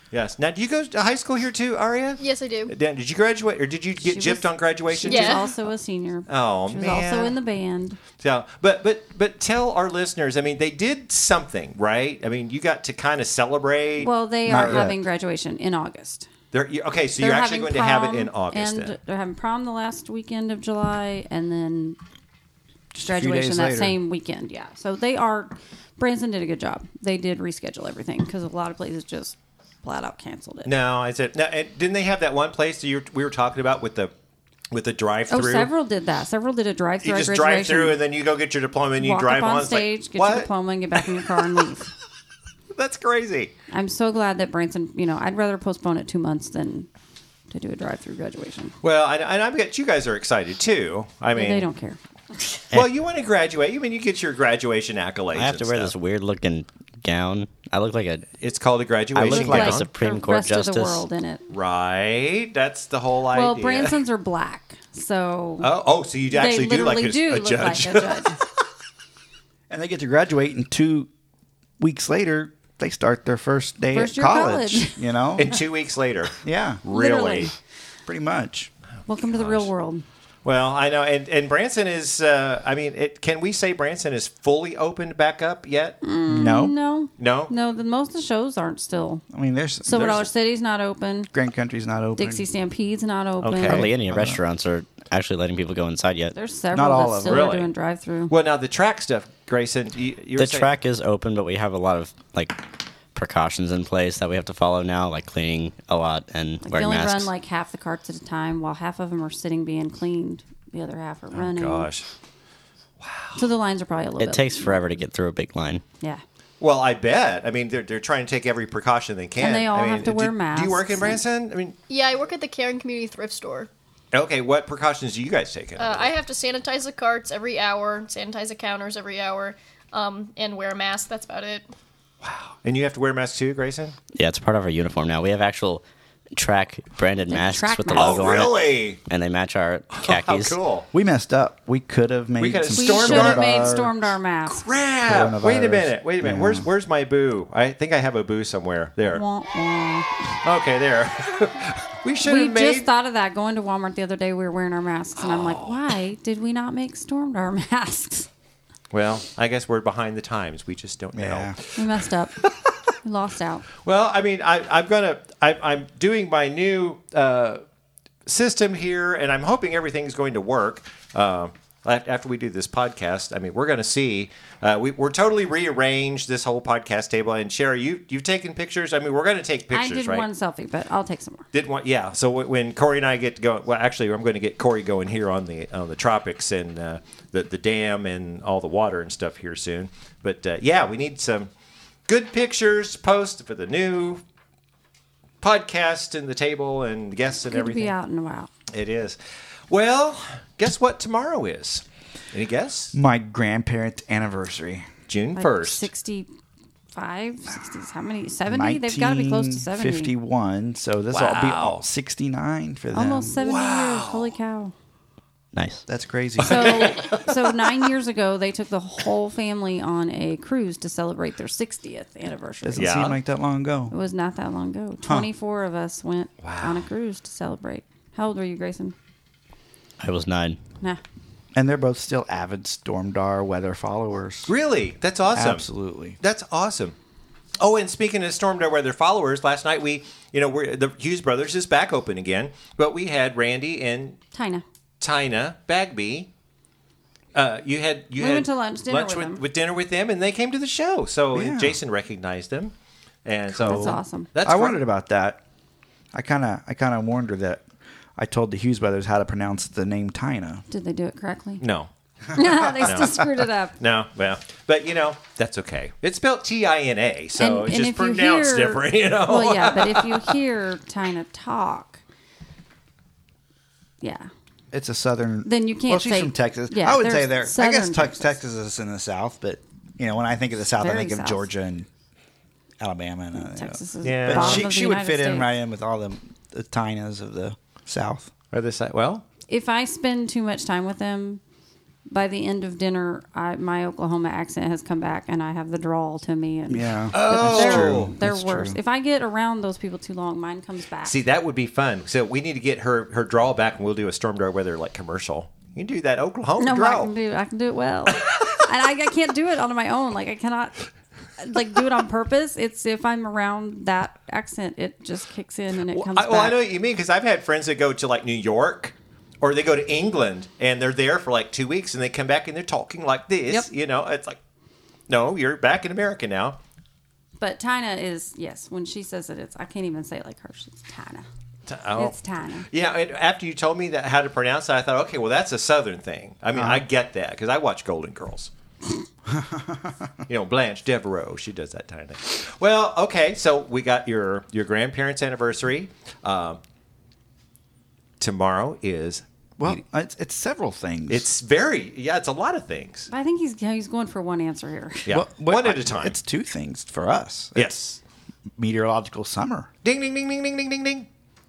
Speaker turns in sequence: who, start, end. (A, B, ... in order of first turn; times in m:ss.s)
0:00.1-0:05.6 A
0:02.2-0:02.7 B
0:04.0-0:08.0 C
0:05.1-0:05.5 B
0:06.3-0:07.4 A
0:08.2-0:14.9 A
0:14.0-0:16.3 C
0:14.4-0:15.0 D
0:16.5-0:19.0 A
0:17.2-0:22.0 C
0:22.9-0:24.0 D
0:23.0-0:30.7 C
0:30.6-0:34.1 A
0:34.7-0:35.7 A
0:35.3-0:38.0 C
0:37.0-0:41.5 A
0:39.0-0:41.9 C
0:42.7-0:43.5 A
0:43.7-0:46.9 C
0:47.5-0:48.8 C
0:48.8-0:51.7 A
0:51.3-0:52.5 C
0:52.7-0:55.9 A
0:55.3-0:58.3 E
0:58.4-0:59.9 A
0:59.2-1:01.0 E
0:59.3-1:01.4 C
1:01.5-1:04.0 A
1:03.3-1:05.7 C
1:05.6-1:08.4 A
1:06.3-1:08.4 C
1:09.7-1:11.1 D
1:11.8-1:15.6 D
1:13.9-1:15.0 C
1:15.4-1:17.5 A
1:16.4-1:16.8 D
1:16.9-1:17.5 C
1:18.1-1:18.7 D
1:19.1-1:20.0 C
1:19.3-1:19.7 A
1:20.4-1:26.0 A
1:26.0-1:29.2 C
1:26.3-1:26.8 D
1:27.2-1:27.5 A
1:29.3-1:30.2 D
1:29.8-1:31.3 C
1:29.9-1:30.3 A
1:31.3-1:32.4 D
1:32.2-1:33.9 C
1:33.4-1:33.9 A
1:33.7-1:36.3 E
1:33.9-1:34.4 D
1:36.3-1:38.4 C
1:36.7-1:37.6 D
1:37.2-1:37.7 A
1:38.3-1:40.7 A
1:40.4-1:47.3 E
1:46.6-1:51.9 C
1:51.3-1:52.1 A
1:53.0-1:53.5 A
1:53.4-1:54.8 C
1:54.2-1:55.8 E
1:56.6-2:01.8 A
1:59.4-2:01.2 C
2:01.9-2:03.7 B
2:04.1-2:06.1 A
2:05.8-2:11.7 B
2:12.2-2:14.0 A
2:14.1-2:15.8 E
2:16.4-2:20.6 E
2:17.3-2:18.5 C
2:18.0-2:19.0 A
2:20.0-2:20.9 A
2:20.9-2:23.9 D
2:22.4-2:23.9 A
2:22.8-2:24.7 C
2:24.5-2:29.2 A
2:25.0-2:26.7 D
2:29.1-2:30.1 C
2:30.4-2:32.9 A
2:32.2-2:38.3 C
2:35.2-2:35.8 A
2:38.9-2:42.8 A
2:41.1-2:41.6 D
2:41.8-2:42.4 C
2:43.0-2:43.7 C
2:43.8-2:47.6 A
2:48.3-3:00.3 A
2:59.7-3:01.5 C
3:01.5-3:11.5 A
3:12.1-3:14.2 A
3:15.4-3:17.9 A
3:17.5-3:18.5 C
3:18.7-3:19.2 A
3:19.7-3:23.0 A
3:22.9-3:24.9 D
3:25.1-3:25.9 A
3:25.4-3:26.3 C
3:26.9-3:30.1 C
3:28.5-3:33.4 D
3:31.1-3:31.8 A
3:32.9-3:34.7 C
3:33.4-3:34.4 A
3:35.5-3:35.8 E
3:35.9-3:37.0 D
3:36.4-3:43.1 C
3:36.4-3:37.6 A
3:42.6-3:43.9 D
3:42.8-3:43.2 A
3:43.9-3:49.0 C
3:45.0-3:45.3 D
3:46.4-3:46.9 A
3:50.0-3:50.6 E
3:51.5-3:54.5 D
3:54.5-3:57.0 A
3:55.3-3:56.2 D
3:57.6-4:04.2 A
4:04.3-4:04.6 C
4:05.0-4:06.3 A
4:07.4-4:12.7 A
4:08.2-4:09.4 C
4:11.3-4:11.8 D
4:13.2-4:14.8 A
4:13.5-4:15.4 D
4:13.6-4:14.3 C
4:16.1-4:17.6 D
4:18.2-4:20.6 D
4:20.7-4:21.6 C
4:21.6-4:21.9 A
4:22.3-4:23.8 C
4:22.4-4:23.3 D
4:22.8-4:23.1 A
4:23.8-4:30.4 A
4:27.4-4:32.0 C
4:34.0-4:34.3 C
4:34.7-4:41.9 D
4:35.4-4:38.4 C
4:40.8-4:41.5 C
4:42.8-4:48.3 D
4:43.4-4:45.5 C
4:44.0-4:44.8 A
4:48.5-4:49.2 A
4:49.5-4:51.4 C
4:52.1-5:01.2 C
4:56.7-4:58.8 D
4:57.1-4:58.1 A
5:01.0-5:07.1 A
5:06.6-5:16.7 C
5:08.1-5:08.6 A
5:15.9-5:24.4 A
5:25.1-5:26.6 A
5:27.4-5:31.3 C
5:31.7-5:32.2 A
5:32.0-5:32.7 C
5:32.7-5:38.5 A
5:36.5-5:36.8 D
5:39.3-5:40.1 D
5:40.3-5:46.6 A
5:48.2-5:49.8 A
5:49.6-5:51.3 D
5:51.1-5:53.1 A
5:53.1-5:55.1 C
5:55.1-5:56.2 A
5:55.1-5:57.7 D
5:57.6-5:58.0 A
5:58.6-5:59.7 D
5:59.8-6:01.1 A